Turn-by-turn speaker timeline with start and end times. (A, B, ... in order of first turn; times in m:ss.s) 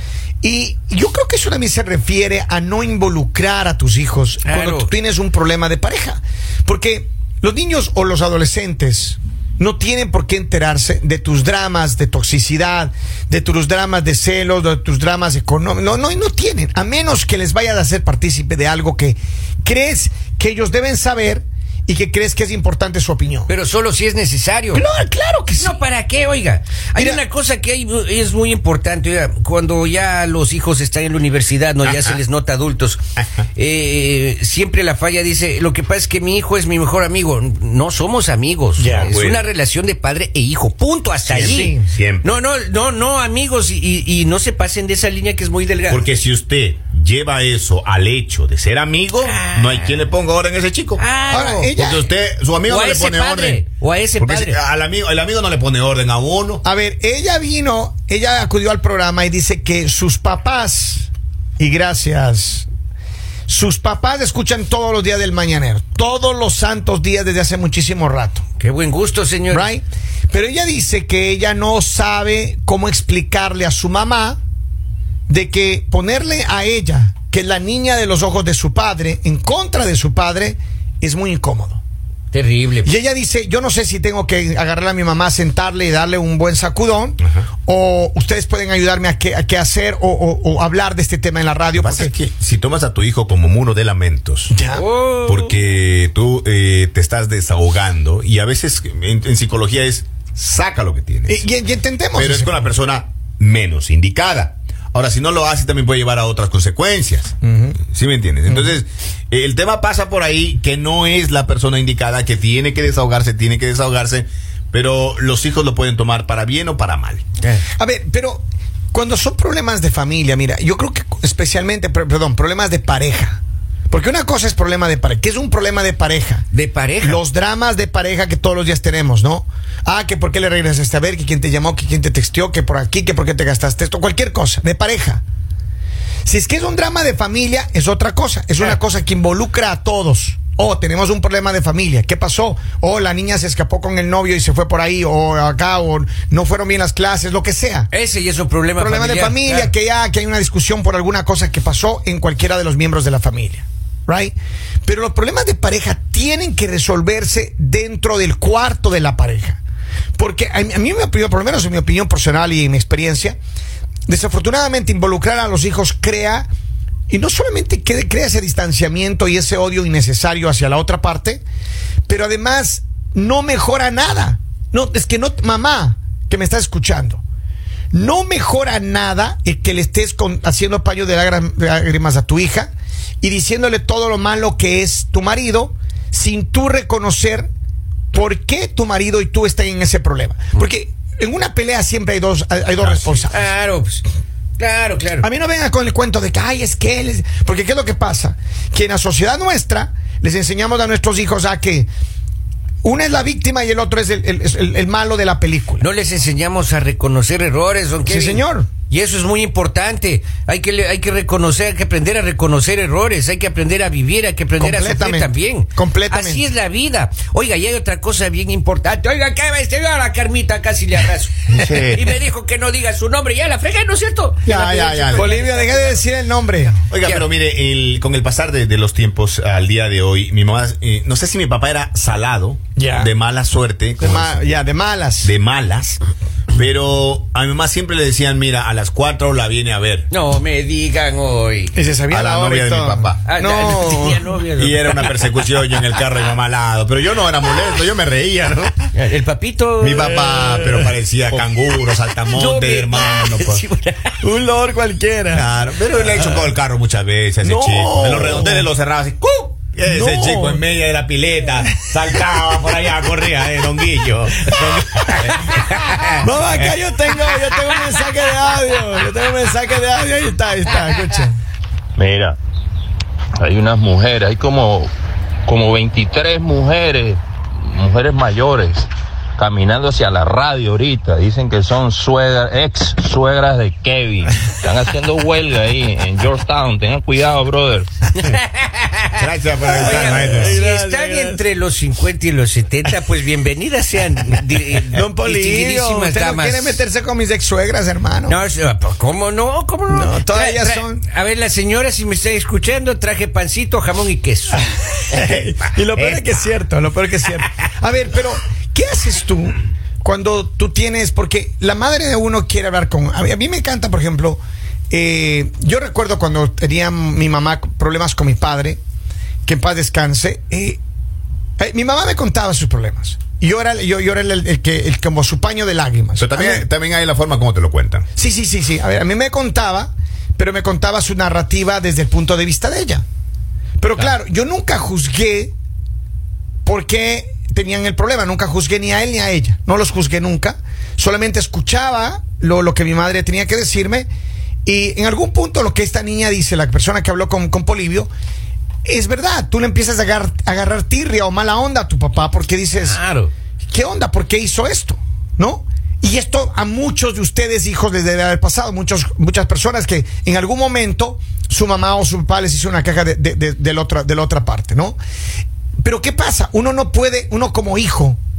0:00.4-0:23.5 A
0:04.4-0:04.9 B
0:23.5-0:24.8 B
0:24.7-0:25.8 A
0:25.6-0:33.0 B
0:27.0-0:27.2 A
0:31.8-0:32.2 C
0:33.2-0:33.4 C
0:33.6-0:46.1 B
0:38.8-0:39.1 A
0:38.9-0:39.4 C
0:41.3-0:42.4 C
0:41.4-0:41.9 A
0:45.9-0:51.0 C
0:49.2-0:50.1 B
0:51.0-0:51.7 B
0:51.3-0:52.1 A
0:51.8-0:53.6 C
0:52.7-0:54.6 B
0:54.2-0:56.6 C
0:56.6-1:02.7 A
1:03.5-1:08.4 A
1:08.6-1:09.7 B
1:09.5-1:14.4 A
1:15.3-1:21.8 A
1:22.3-1:22.9 B
1:22.8-1:32.1 A
1:31.8-1:34.6 C
1:34.5-1:34.8 A
1:34.7-1:35.6 B
1:35.2-1:41.5 C
1:41.3-1:42.7 A
1:42.1-1:47.3 C
1:47.4-1:47.8 A
1:47.9-1:57.2 C
1:48.5-1:48.8 A
1:57.8-2:06.4 A
2:06.5-2:07.2 B
2:07.0-2:15.2 A
2:16.2-2:27.9 A
2:27.9-2:29.7 B
2:28.8-2:39.6 A
2:40.2-2:43.4 A
2:44.1-2:46.5 A
2:47.1-2:51.4 A
2:52.1-2:57.2 A
2:57.9-3:02.7 A
3:03.2-3:07.5 A
3:08.1-3:13.5 A
3:12.8-3:13.2 C
3:13.3-3:14.0 B
3:14.6-3:15.3 B
3:15.2-3:21.9 A
3:22.8-3:25.8 A
3:25.8-3:44.5 B
3:28.0-3:28.7 A
3:34.6-3:36.4 A
3:41.5-3:42.1 C
3:44.4-3:45.4 C
3:44.4-3:46.8 A
3:45.0-3:46.1 B
3:46.6-3:47.2 B
3:46.9-3:54.5 C
3:52.8-3:53.1 A
3:54.0-3:55.3 A
3:55.2-3:56.0 C
3:56.5-4:00.1 C
4:00.1-4:01.8 B
4:01.7-4:04.2 A
4:02.1-4:03.3 C
4:03.2-4:05.2 B
4:04.6-4:08.9 C
4:08.9-4:10.3 B
4:09.8-4:13.6 C
4:09.9-4:11.4 A
4:12.3-4:14.2 B
4:14.2-4:15.5 A
4:15.3-4:26.7 C
4:17.4-4:18.7 A
4:19.8-4:20.6 A
4:25.4-4:26.2 B
4:26.2-4:31.4 A
4:32.0-4:32.4 D
4:33.4-4:34.9 D
4:35.4-4:47.9 D
4:48.2-4:49.1 B
4:49.1-4:50.6 C
4:49.6-4:51.4 A
4:49.8-4:56.8 B
4:54.9-4:58.4 A
4:58.3-5:04.6 B
4:59.9-5:01.0 A
5:05.1-5:18.8 A
5:05.2-5:06.2 C
5:19.4-5:20.8 A
5:21.6-5:26.6 A
5:26.2-5:28.0 C
5:28.2-5:33.0 A
5:33.8-5:35.5 A
5:36.6-5:44.1 A
5:44.6-5:48.1 A
5:48.8-5:53.0 A
5:52.8-5:53.3 B
5:53.7-6:05.0 A
6:05.8-6:08.2 A